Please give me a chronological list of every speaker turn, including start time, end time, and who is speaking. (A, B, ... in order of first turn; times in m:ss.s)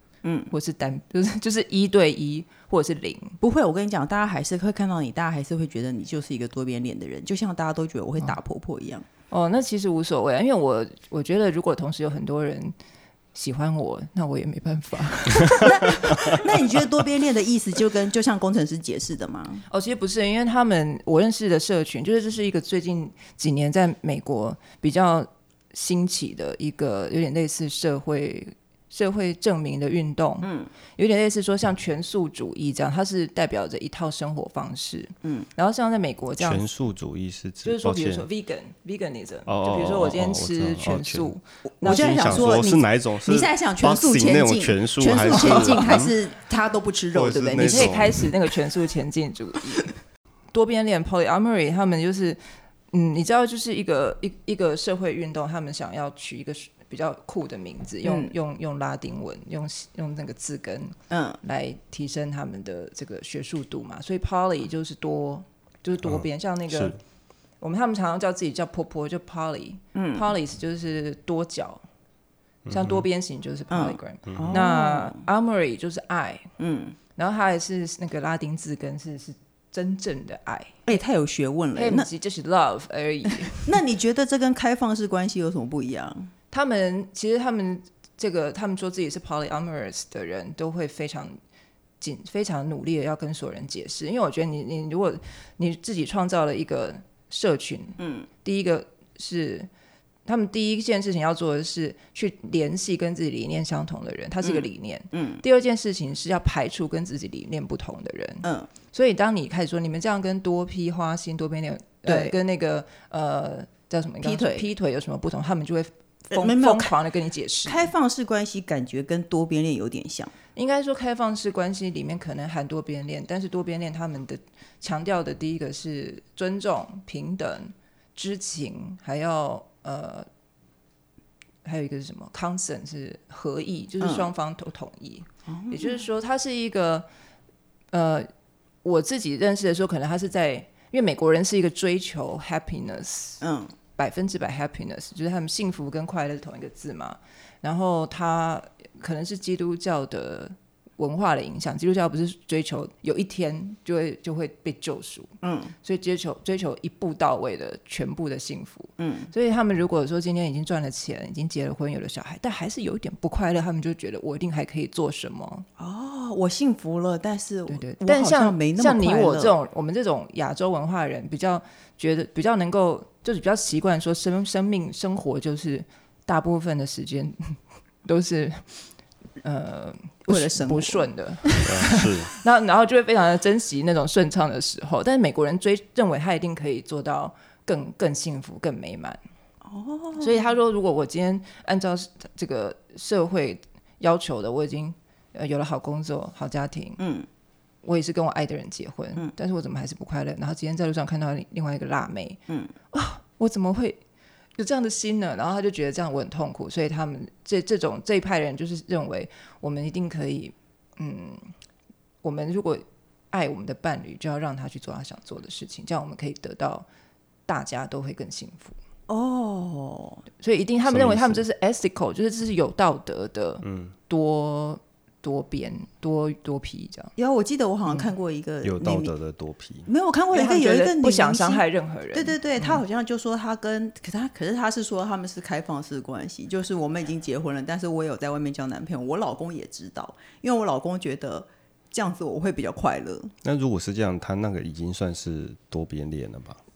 0:00.2-0:00.5 A
0:00.5-0:03.4 B
0:03.4-0:09.0 A
0:09.3-0:12.8 B
0:13.4-0:16.5 B
0:15.6-0:19.6 A
0:19.7-0:36.6 B
0:30.4-0:30.7 A
0:36.4-0:38.3 C
0:37.6-0:42.6 B
0:39.5-0:41.3 C
0:41.7-0:48.2 A
0:41.8-0:46.1 C
0:45.3-0:46.0 B
0:47.1-0:48.3 C
0:47.6-0:49.9 B
0:50.5-0:52.4 B
0:52.9-1:07.0 B
0:58.0-0:58.3 A
1:01.1-1:01.4 A
1:06.0-1:07.0 C
1:07.6-1:11.8 B
1:10.0-1:10.3 A
1:12.7-1:13.0 C
1:12.7-1:16.5 B
1:13.7-1:15.3 A
1:14.3-1:14.6 C
1:16.6-1:17.0 A
1:17.2-1:21.0 B
1:20.9-1:22.1 A
1:21.8-1:23.7 B
1:23.4-1:26.3 A
1:26.5-1:31.4 B
1:32.0-1:39.7 B
1:38.0-1:38.3 A
1:40.3-1:57.9 B
1:44.4-1:45.4 A
1:48.4-1:48.7 A
1:52.1-1:52.4 A
1:54.2-1:54.7 A
1:56.3-1:56.9 A
1:57.7-2:00.3 A
2:00.6-2:10.3 B
2:11.6-2:17.1 B
2:14.0-2:14.3 A
2:15.5-2:16.1 A
2:17.9-2:18.3 B
2:18.8-2:23.4 B
2:23.4-2:23.7 A
2:24.0-2:45.7 B
2:35.4-2:35.8 A
2:39.0-2:39.3 A
2:45.8-2:49.5 A
2:47.7-2:58.7 B
2:59.4-3:09.2 B
3:00.3-3:01.8 A
3:01.6-3:02.3 C
3:09.6-3:10.4 A
3:10.2-3:17.0 B
3:17.0-3:17.3 A
3:17.8-3:22.4 B
3:22.5-3:22.7 A
3:22.9-3:24.0 B
3:24.6-3:31.5 B
3:32.2-3:36.9 B
3:37.5-3:38.8 B
3:39.1-3:40.2 A
3:40.4-3:47.1 B
3:40.9-3:41.4 C
3:43.6-3:43.9 C
3:47.2-3:49.1 A
3:48.6-3:49.9 C
3:49.9-4:03.3 A
3:50.3-3:52.8 B
4:03.4-4:06.6 C